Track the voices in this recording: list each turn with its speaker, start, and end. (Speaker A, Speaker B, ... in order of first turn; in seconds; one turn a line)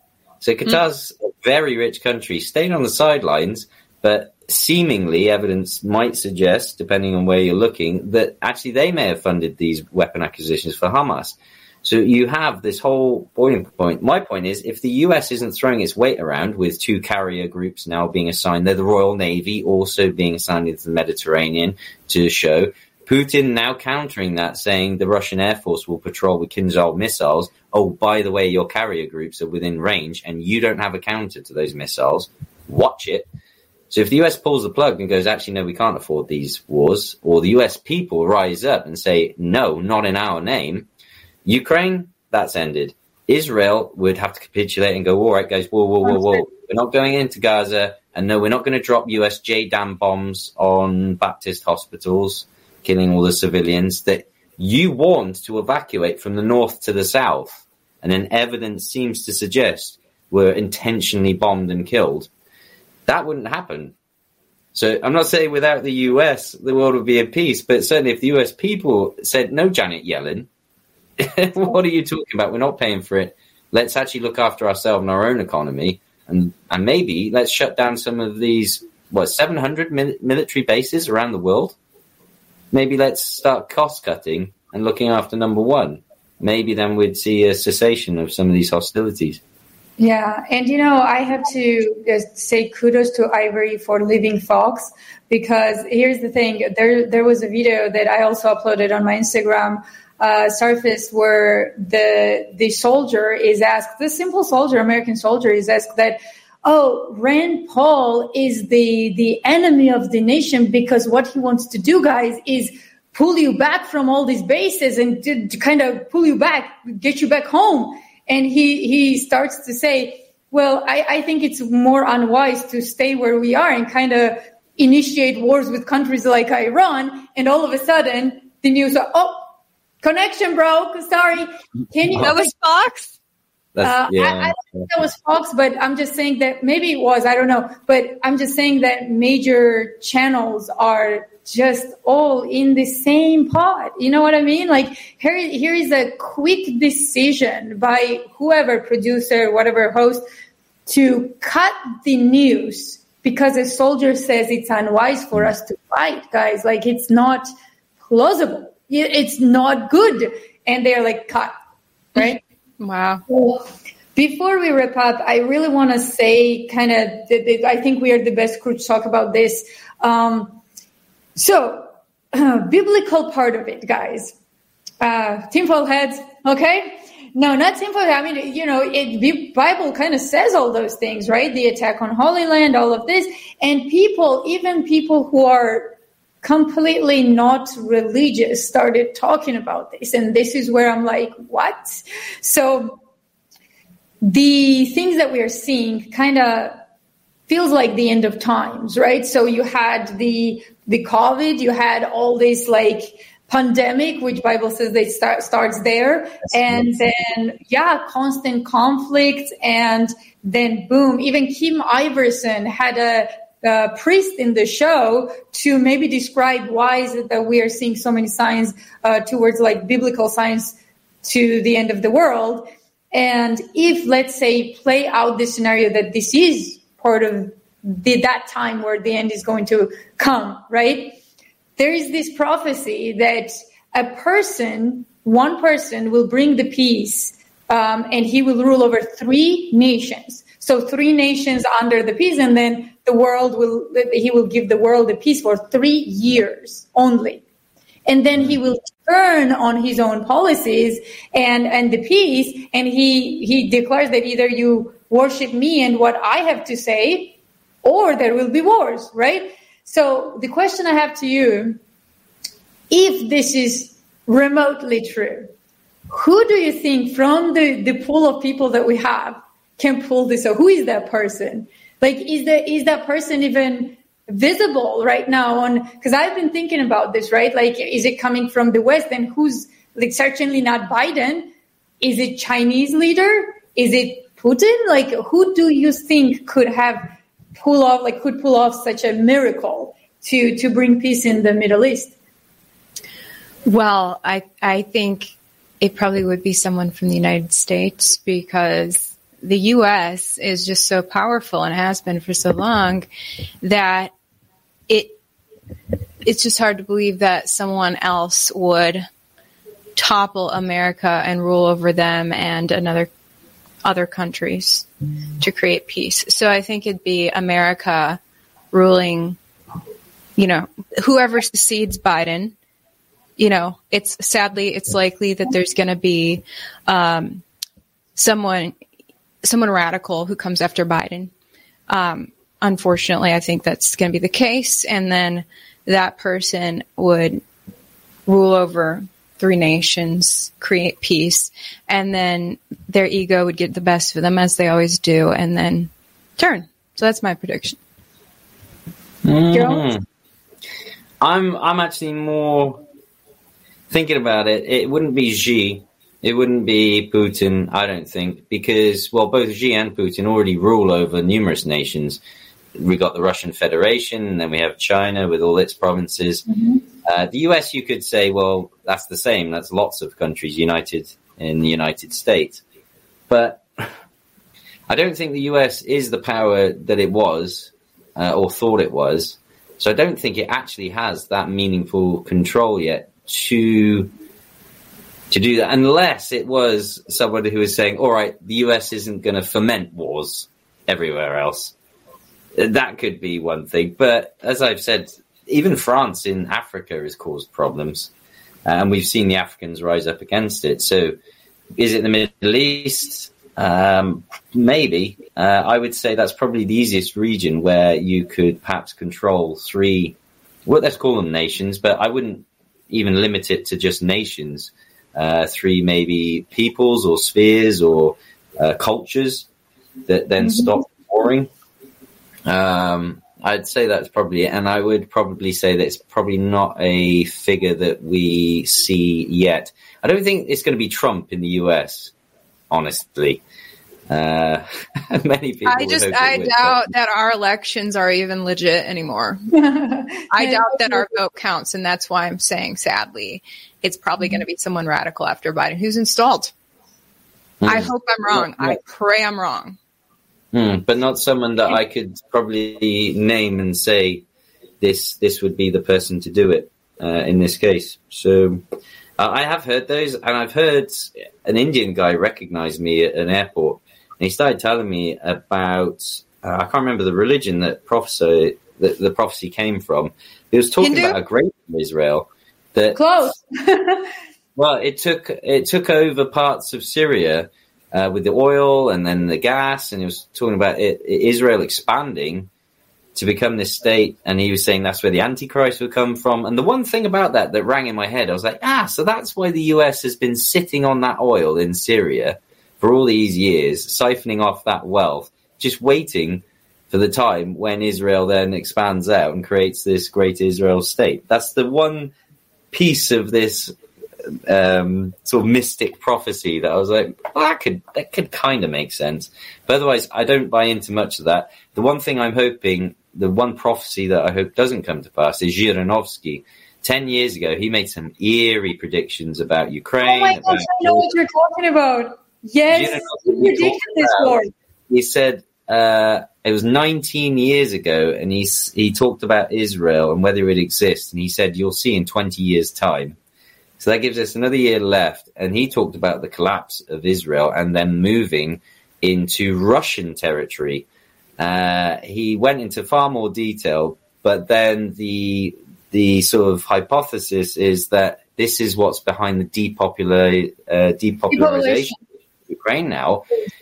Speaker A: 0.4-33.3
Speaker A: 33.9-40.9
Speaker A: 41.4-62.3
Speaker B: 46.1-46.4
Speaker A: 63.1-63.9
Speaker A: 64.7-70.5
Speaker A: 71.2-81.8
Speaker A: 82.7-89.4
Speaker B: 90.0-129.5
Speaker B: 130.0-132.5
Speaker C: 132.2-133.1
Speaker A: 133.7-134.9
Speaker B: 133.8-150.2
Speaker B: 150.8-157.5
Speaker B: 158.1-161.5
Speaker B: 162.1-162.4
Speaker C: 162.2-163.2
Speaker B: 163.3-170.6
Speaker B: 171.3-174.3
Speaker B: 175.0-193.0
Speaker B: 194.2-196.8
Speaker B: 197.5-231.2
Speaker B: 231.8-247.4
Speaker B: 248.1-261.8
Speaker B: 262.9-265.5
Speaker B: 266.1-281.5
Speaker B: 282.0-292.1
Speaker C: 293.6-303.1
Speaker C: 303.6-304.1
Speaker C: 304.9-305.2
Speaker C: 306.2-309.1
Speaker C: 309.9-313.1
Speaker C: 313.8-314.9
Speaker C: 315.4-318.2
Speaker C: 318.7-319.4
Speaker C: 320.4-322.5
Speaker C: 323.4-327.4
Speaker C: 328.1-328.8
Speaker C: 329.4-331.3
Speaker C: 331.9-337.4
Speaker C: 338.3-347.8
Speaker A: 349.2-350.0
Speaker B: 349.5-349.9
Speaker A: 351.2-352.8
Speaker A: 353.9-362.2
Speaker A: 362.8-366.5
Speaker B: 366.5-366.8
Speaker A: 367.0-372.6
Speaker A: 373.3-373.9
Speaker A: 374.9-384.1
Speaker A: 385.3-391.7
Speaker A: 392.6-398.1
Speaker A: 398.6-401.1
Speaker A: 401.8-419.5
Speaker A: 420.1-421.5
Speaker A: 422.4-432.1
Speaker A: 432.7-433.4
Speaker A: 434.1-436.8
Speaker C: 435.6-439.5
Speaker B: 439.5-441.0
Speaker C: 440.3-446.5
Speaker A: 447.6-448.8
Speaker C: 447.6-449.8
Speaker A: 450.5-454.2
Speaker A: 454.8-458.6
Speaker A: 459.2-473.3
Speaker C: 470.8-471.2
Speaker B: 472.9-474.1
Speaker A: 474.6-482.5
Speaker A: 483.1-502.1
Speaker A: 502.7-503.7
Speaker A: 504.5-521.1
Speaker B: 520.0-524.5
Speaker A: 522.7-533.2
Speaker A: 533.8-540.9
Speaker A: 541.4-552.0
Speaker B: 551.3-552.0
Speaker A: 552.5-553.2